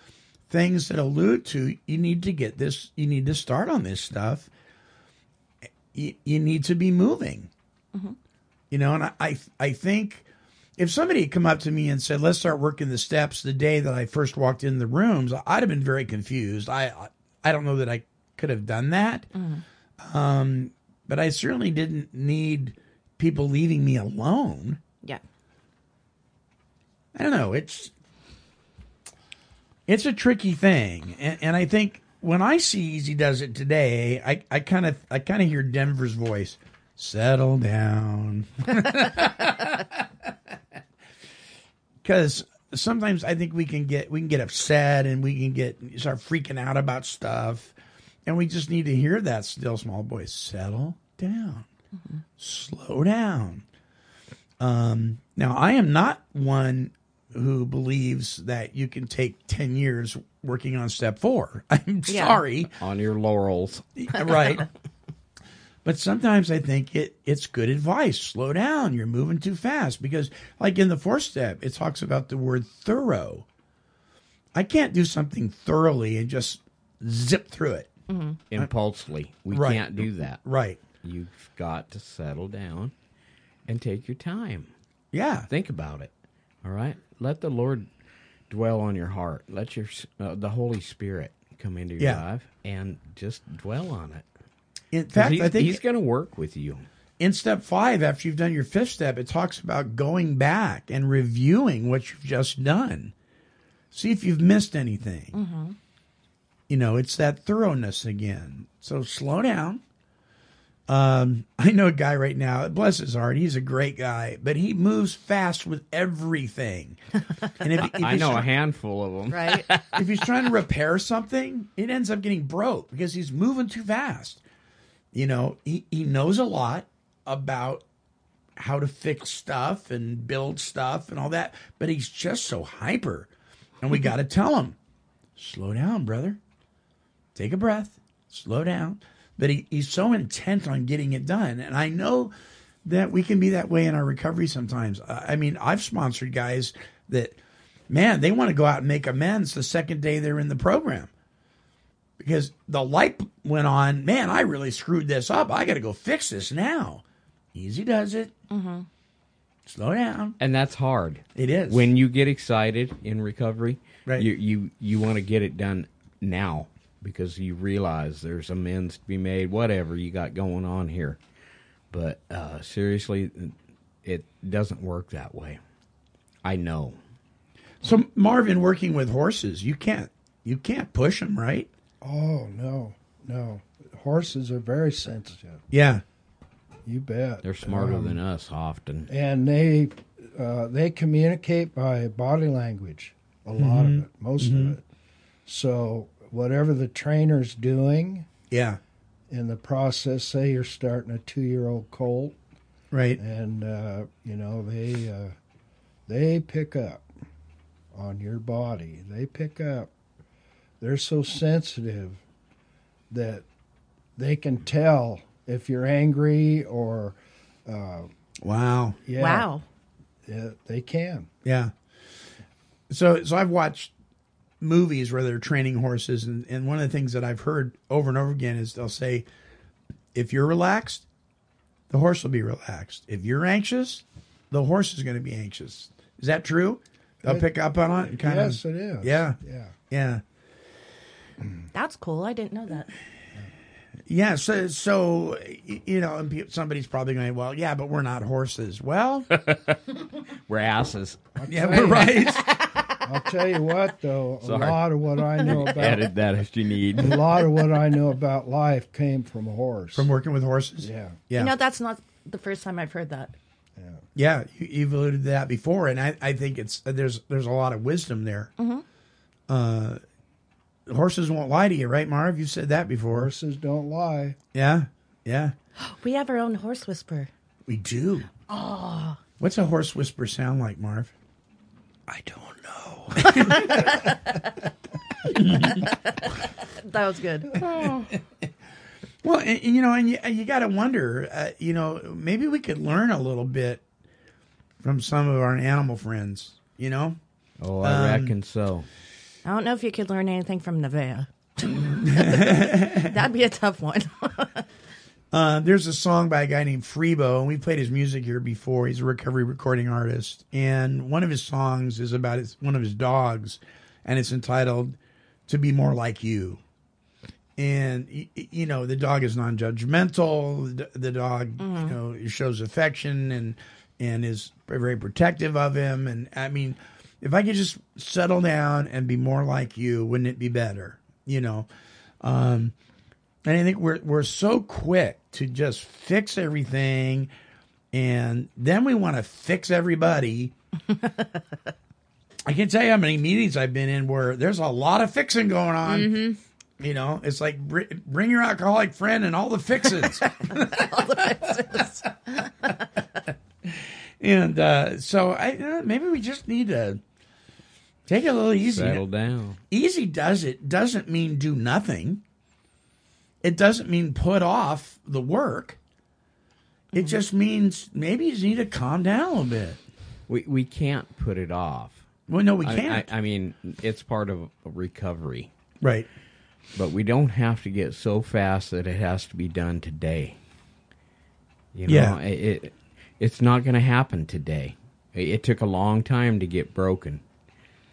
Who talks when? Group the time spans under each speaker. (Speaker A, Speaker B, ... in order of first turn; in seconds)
Speaker A: 0.5-4.5, 5.9-7.5, 8.7-10.2, 10.8-19.3, 20.0-24.8, 27.1-27.9, 29.9-40.0, 42.0-47.7, 48.2-51.7, 52.4-53.6, 54.6-62.7, 64.0-64.7, 65.8-73.5, 74.5-77.9, 79.5-80.8, 85.1-85.5, 94.9-95.8, 97.2-103.1, 103.9-105.3, 106.7-109.8, 110.9-117.0, 117.6-118.5, 119.9-124.4, 125.1-127.8, 128.6-133.3, 133.8-134.8, 135.4-136.4, 137.3-142.3, 142.8-147.4, 147.9-151.1, 152.2-157.0, 157.5-158.3, 159.7-160.3, 161.3-161.9, 177.8-181.7, 185.7-186.0, 193.6-194.7, 198.5-198.8, 202.9-203.2, 218.4-219.0, 221.4-221.7, 222.9-223.9, 224.6-229.2, 230.1-231.1, 231.9-239.4, 239.9-240.2, 244.1-249.3, 251.5-252.5, 259.9-261.6, 264.1-268.5, 269.5-270.0, 270.9-273.3, 274.5-275.5, 277.7-278.3, 279.4-281.1, 282.1-284.2, 285.3-285.9, 287.6-288.0, 289.2-293.8, 294.8-297.2, 297.8-298.3, 301.7-303.1, 305.3-316.6, 317.6-331.7, 332.2-332.7, 333.4-337.3, 337.9-340.5, 342.4-346.2, 346.8-351.3, 353.6-357.0, 358.1-359.0, 359.7-362.2, 363.4-365.8, 366.9-369.8, 372.3-373.1, 375.8-376.1, 381.9-382.2
Speaker B: 19.3-19.6, 62.1-62.4, 78.1-78.4, 105.3-105.8, 119.3-119.7, 158.5-158.8, 219.2-219.6, 241.7-242.9, 252.3-252.9, 261.3-263.3, 268.6-268.8, 275.8-277.3, 278.5-279.2, 283.3-284.5, 285.8-286.1, 286.8-288.1, 299.4-304.6, 321.6-321.9, 341.0-341.3, 345.9-346.4, 350.1-352.8
Speaker C: 62.8-64.2, 78.5-80.4, 81.0-82.9, 83.7-84.7, 85.5-86.1, 86.6-87.9, 88.5-94.2, 95.1-96.8, 117.8-120.2, 160.4-171.2, 171.9-175.6, 176.4-177.0, 187.4-189.1, 249.3-249.9, 250.5-251.2, 254.4-257.2, 297.6-298.9, 358.6-359.6, 370.3-372.0, 372.6-375.5, 376.7-380.4, 381.7-387.2
Speaker D: 182.0-185.6, 186.8-188.2, 189.1-194.8, 195.4-198.3, 199.3-202.4, 203.2-205.3, 206.1-207.1, 207.9-209.9, 210.8-212.2, 213.1-213.4, 214.2-218.1, 219.0-219.5, 220.2-221.3, 238.1-239.7, 251.3-252.3, 253.0-256.1, 256.9-260.1, 260.8-261.2, 263.8-264.0, 273.1-274.4